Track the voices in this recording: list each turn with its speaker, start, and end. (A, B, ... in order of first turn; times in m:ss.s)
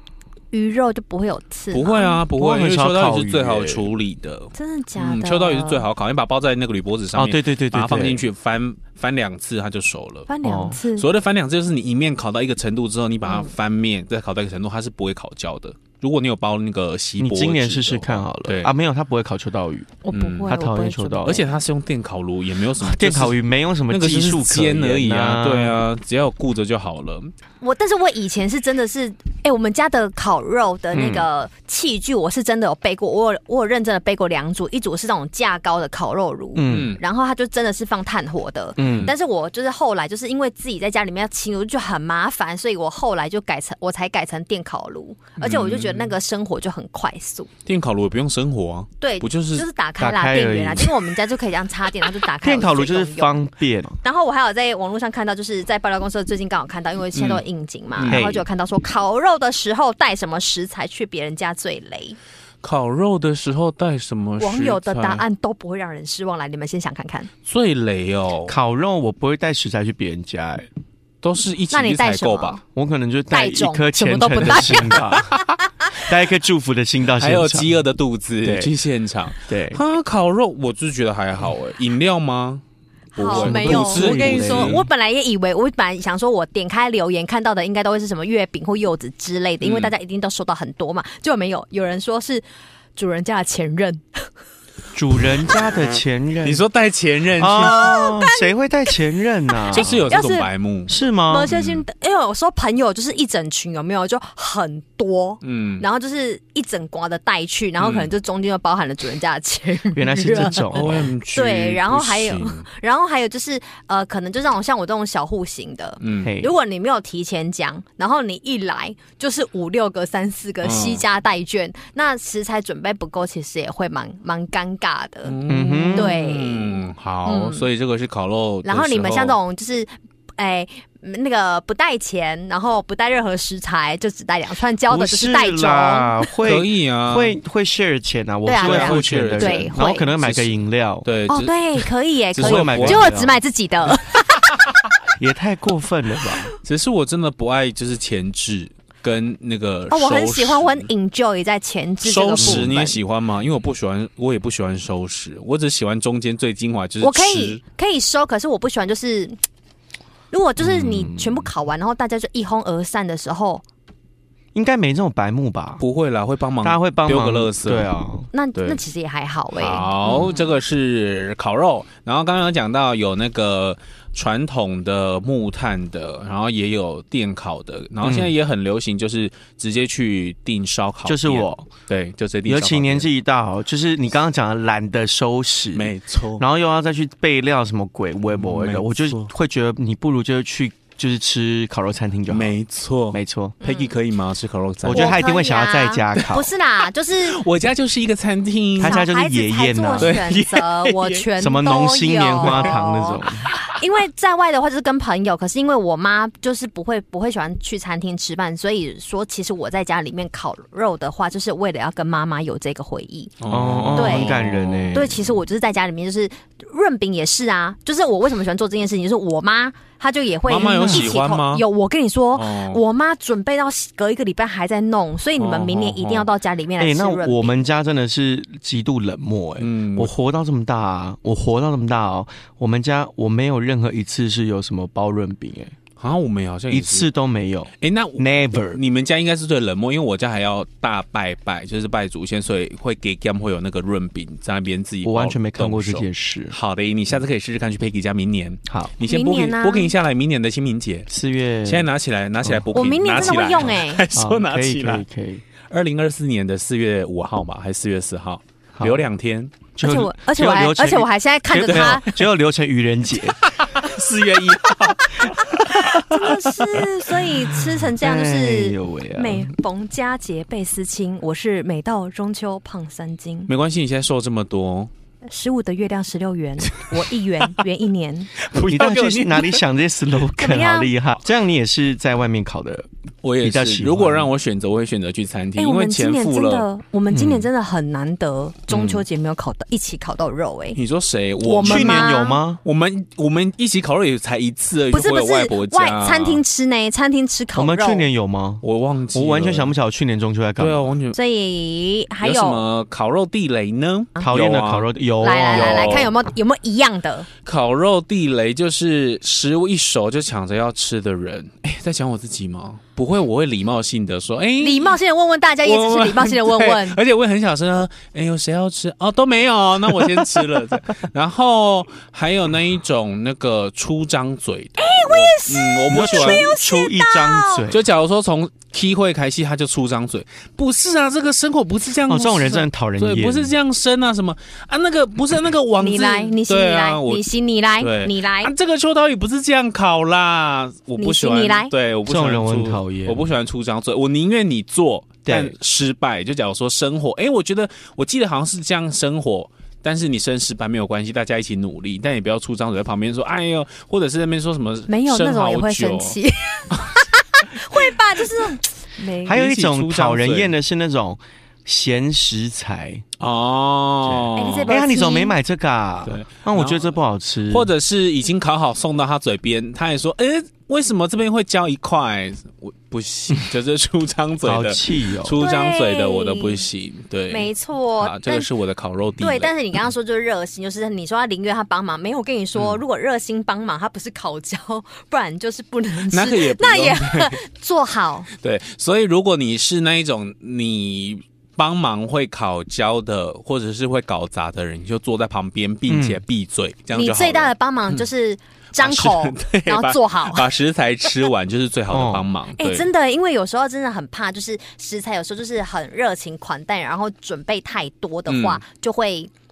0:00.5-0:02.2 A
0:01.7-0:10.3 B
0:02.3-0:03.9 C
0:04.6-0:05.8 A
0:07.1-0:08.2 C
0:10.3-0:11.1 A
0:10.4-0:10.8 C
0:10.8-0:18.7 B
0:17.2-0:21.4 C
0:20.0-0:21.4 A
0:20.1-0:20.5 B
0:21.2-0:27.3 B
0:22.8-0:25.8 C
0:27.6-0:47.5 A
0:30.9-0:31.2 C
0:36.6-0:37.0 C
0:36.7-0:37.0 B
0:38.8-0:39.1 C
0:38.8-0:39.1 B
0:45.4-0:46.1 B
0:47.7-0:49.7 B
0:49.0-0:53.4 A
0:50.0-0:51.0 C
0:52.4-0:54.0 C
0:54.0-1:02.2 A
0:57.2-0:57.4 B
0:58.0-0:58.3 B
0:58.1-0:58.5 C
1:02.6-1:05.2 B
1:04.4-1:07.3 A
1:07.4-1:08.6 B
1:08.5-1:10.7 C
1:11.2-1:12.6 B
1:11.7-1:12.6 A
1:12.8-1:15.4 C
1:13.3-1:15.9 A
1:14.4-1:15.6 B
1:16.0-1:17.7 C
1:17.2-1:22.6 B
1:18.4-1:18.7 C
1:19.5-1:19.8 C
1:23.2-1:24.8 B
1:23.2-1:32.4 A
1:23.4-1:24.9 C
1:29.6-1:29.9 B
1:33.0-1:34.2 A
1:35.0-1:36.6 C
1:36.4-1:38.0 B
1:37.4-1:39.9 C
1:37.6-1:40.5 A
1:39.7-1:40.9 B
1:40.9-1:41.5 C
1:41.3-2:05.4 A
1:41.5-1:41.8 B
1:45.4-1:45.8 B
1:47.8-1:48.1 B
1:49.9-1:51.1 C
1:50.7-1:52.7 B
1:56.0-1:56.3 B
1:56.2-1:56.5 C
2:00.6-2:01.0 B
2:05.2-2:09.4 B
2:05.5-2:06.2 C
2:05.9-2:07.7 A
2:08.6-2:16.2 A
2:14.9-2:21.1 C
2:16.4-2:17.4 B
2:18.5-2:20.1 A
2:18.6-2:23.2 B
2:21.3-2:24.4 A
2:22.4-2:23.4 C
2:25.2-2:26.5 C
2:26.6-2:30.9 B
2:29.9-2:33.0 A
2:32.0-2:37.6 B
2:32.4-2:32.7 C
2:37.0-2:39.4 A
2:40.3-2:43.6 A
2:40.6-2:41.5 C
2:44.5-2:45.8 C
2:45.8-2:47.9 B
2:46.6-2:48.3 C
2:48.3-2:50.5 A
2:48.6-2:48.8 B
2:49.5-3:03.1 B
2:58.0-2:58.3 C
3:01.0-3:01.7 C
3:02.4-3:12.5 C
3:05.7-3:06.4 B
3:08.3-3:09.3 B
3:12.3-3:15.2 B
3:13.1-3:13.6 C
3:13.6-3:14.0 A
3:14.8-3:16.5 C
3:14.9-3:17.4 A
3:17.2-3:19.1 B
3:18.8-3:20.2 C
3:18.8-3:33.4 A
3:20.0-3:21.3 B
3:21.4-3:23.5 C
3:22.4-3:22.8 B
3:23.5-3:23.8 B
3:33.4-3:35.1 B
3:33.5-3:35.3 C
3:34.0-3:34.4 A
3:34.9-3:47.6 A
3:40.5-3:41.6 B
3:40.6-3:41.2 C
3:42.4-3:42.8 B
3:45.4-3:46.3 B
3:46.8-3:55.8 C
3:49.6-3:50.1 B
3:56.0-3:57.1 B
3:56.7-3:58.8 C
3:57.8-4:11.1 B
4:05.0-4:06.6 C
4:08.7-4:08.9 C
4:09.1-4:09.9 A
4:11.1-4:11.9 C
4:11.6-4:15.0 B
4:12.7-4:14.0 A
4:14.1-4:15.4 C
4:15.7-4:19.5 B
4:18.8-4:19.0 C
4:19.8-4:21.1 C
4:19.8-4:22.1 A
4:21.5-4:22.0 B
4:21.6-4:23.4 C
4:23.2-4:26.9 B
4:25.8-4:33.5 A
4:28.0-4:29.5 C
4:33.5-4:34.9 B
4:35.2-4:38.3 A
4:36.7-4:37.0 B
4:38.4-4:39.6 B
4:38.7-4:42.9 C
4:40.4-4:40.9 A
4:43.2-4:47.4 B
4:43.4-4:44.3 C
4:45.6-4:50.8 A
4:48.7-4:49.0 B
4:50.8-4:52.1 B
4:51.4-4:52.4 A
4:51.6-4:52.6 C
4:52.6-4:56.4 B
4:54.9-4:58.1 A
4:57.5-4:58.6 C
4:58.6-4:59.7 B
4:59.1-5:01.0 C
5:00.6-5:01.2 B
5:01.1-5:02.6 A
5:02.2-5:06.2 B
5:04.2-5:06.1 C
5:05.2-5:07.3 A
5:07.4-5:15.0 B
5:14.6-5:17.0 A
5:15.6-5:26.5 B
5:24.8-5:27.7 A
5:25.9-5:27.8 C
5:27.7-5:37.2 B
5:32.1-5:33.5 C
5:35.8-5:38.5 A
5:37.8-5:56.2 B
5:41.0-5:41.7 A
5:42.1-5:43.2 C
5:45.2-5:45.6 C
5:54.9-5:59.4 A
5:59.2-6:03.0 C
5:59.3-6:00.6 B
6:03.2-6:04.7 B
6:04.1-6:07.7 C
6:04.4-6:05.4 A
6:06.0-6:06.9 B
6:07.5-6:19.5 B
6:14.4-6:15.4 C
6:15.4-6:16.6 A
6:17.3-6:18.5 A
6:19.2-6:28.3 A
6:22.6-6:22.8 B
6:26.1-6:27.4 B
6:28.4-6:38.0 B
6:35.9-6:36.2 C
6:36.9-6:40.5 A
6:38.8-6:42.9 B
6:41.9-6:42.3 C
6:42.6-6:49.3 A
6:48.3-6:48.6 B